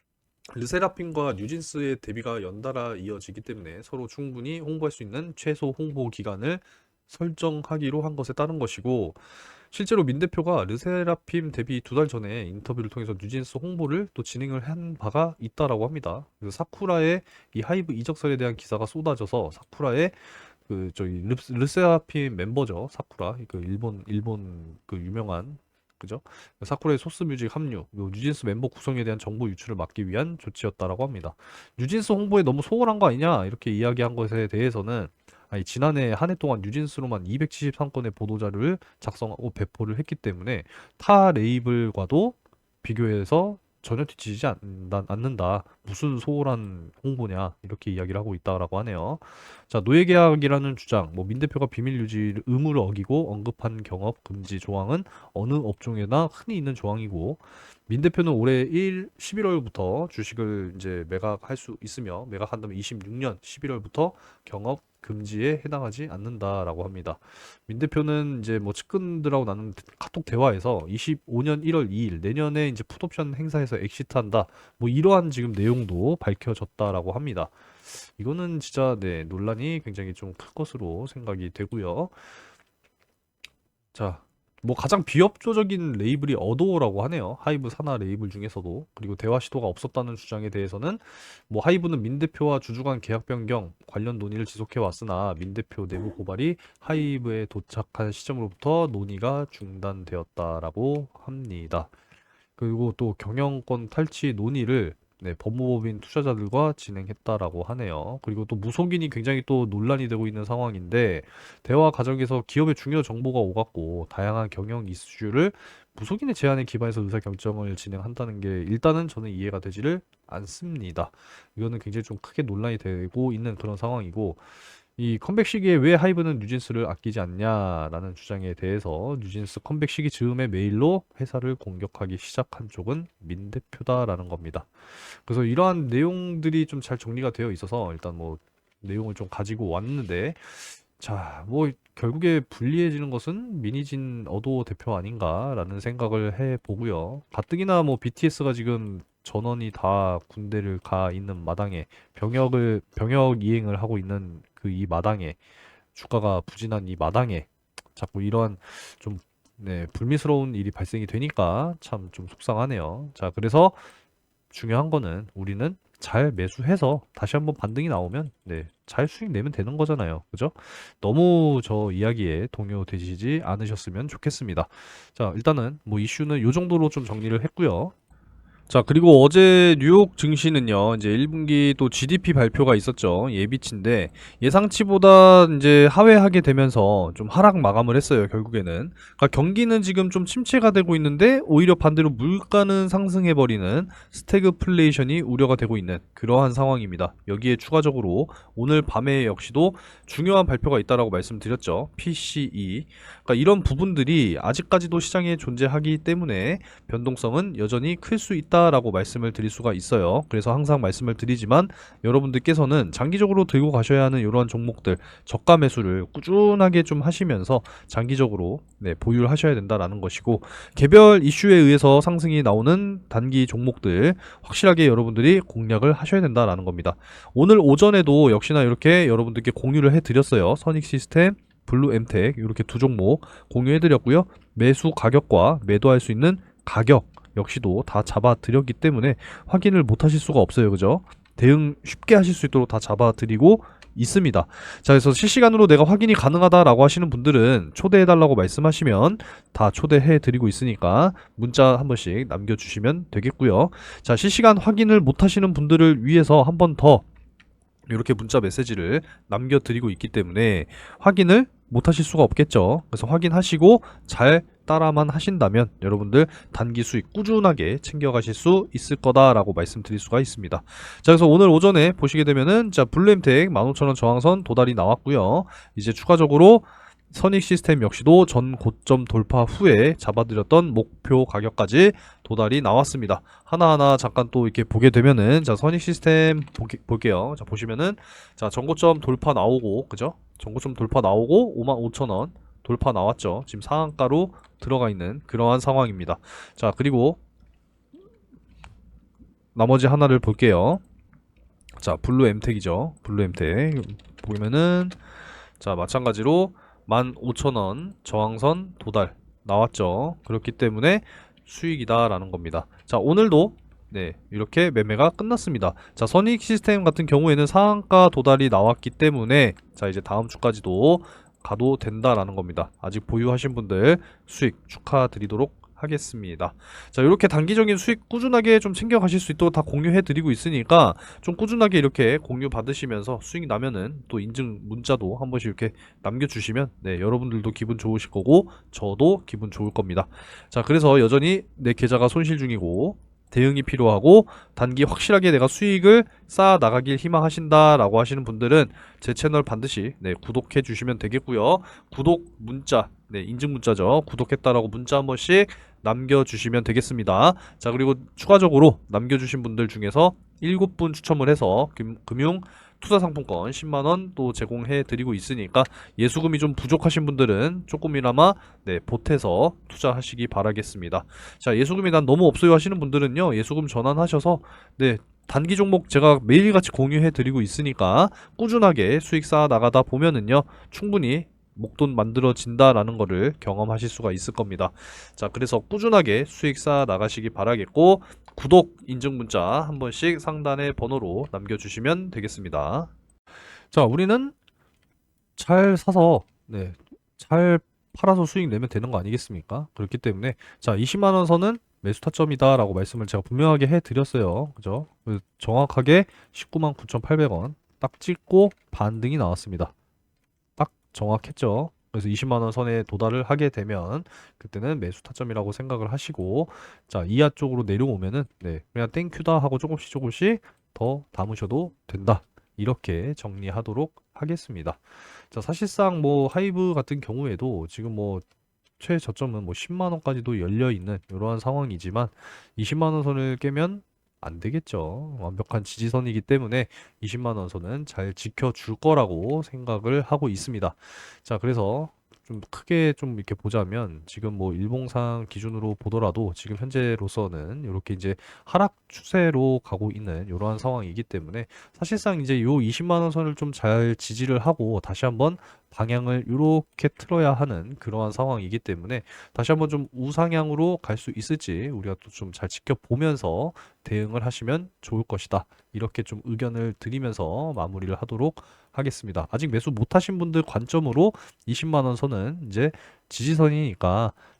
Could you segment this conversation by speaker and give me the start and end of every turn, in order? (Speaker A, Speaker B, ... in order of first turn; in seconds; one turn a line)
Speaker A: 0.5-82.2
Speaker A: 83.9-101.9
Speaker A: 102.6-124.4
Speaker A: 125.0-155.4
Speaker A: 155.9-163.8
Speaker A: 164.5-177.9
Speaker A: 178.7-257.0
Speaker A: 257.9-297.2
Speaker A: 299.5-300.8
Speaker A: 301.8-305.0
Speaker A: 305.6-392.9
Speaker A: 393.7-394.4
Speaker A: 395.4-409.7
Speaker A: 410.6-428.2
Speaker A: 428.8-474.1